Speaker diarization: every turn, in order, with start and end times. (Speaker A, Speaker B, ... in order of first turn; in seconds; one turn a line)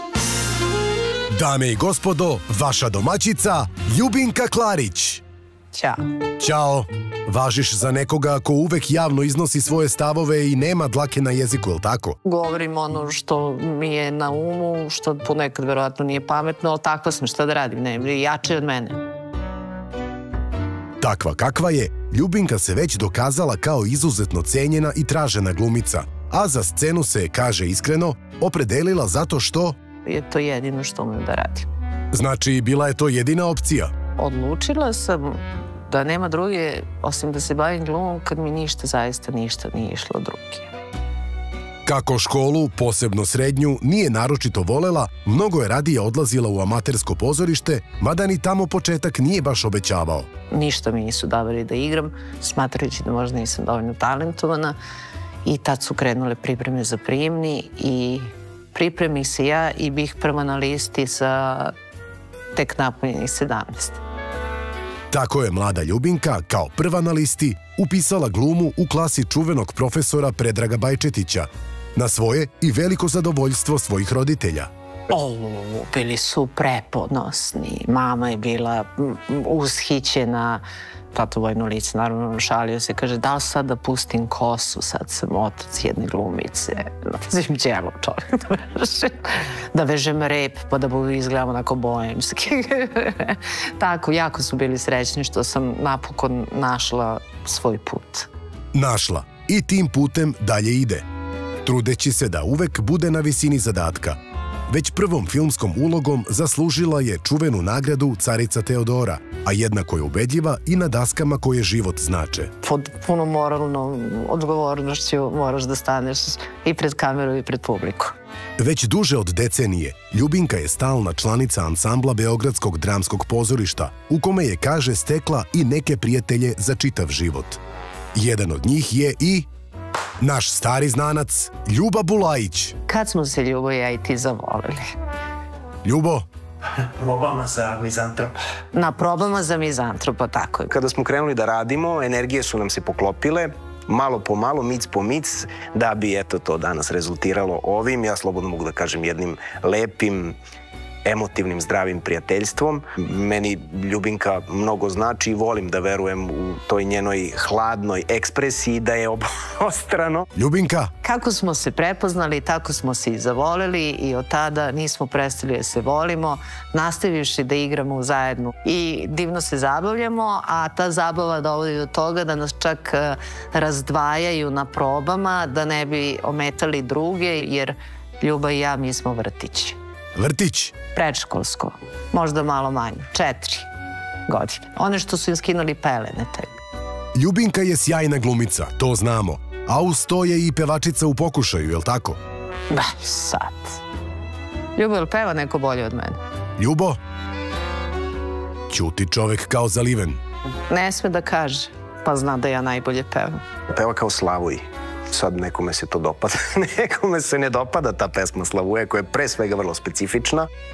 Speaker A: 1.3-5.2
Speaker B: 5.7-6.0
Speaker A: 6.4-12.2
Speaker B: 12.2-19.0
Speaker A: 21.0-29.8
Speaker B: 30.1-31.7
Speaker A: 32.1-33.9
Speaker B: 34.2-40.7
Speaker A: 41.9-50.3
Speaker B: 50.5-54.8
Speaker B: 55.5-61.7
Speaker B: 62.5-64.0
Speaker A: 65.1-74.7
Speaker B: 75.1-98.3
Speaker A: 98.7-101.0
Speaker A: 101.6-112.5
Speaker B: 112.6-118.2
Speaker A: 118.6-127.6
Speaker A: 128.1-129.5
Speaker A: 130.2-132.8
Speaker B: 132.9-134.8
Speaker A: 135.8-136.3
Speaker C: 137.1-138.3
Speaker B: 138.7-140.7
Speaker C: 140.7-150.4
Speaker C: 151.1-160.3
Speaker A: 160.3-160.9
Speaker B: 161.0-179.8
Speaker A: 180.2-180.8
Speaker B: 180.9-183.7
Speaker B: 184.3-186.6
Speaker A: 187.2-192.2
Speaker B: 192.7-193.8
Speaker B: 194.8-196.2
Speaker A: 196.6-197.0
Speaker A: 198.7-200.2
Speaker B: 200.7-203.4
Speaker C: 203.7-210.5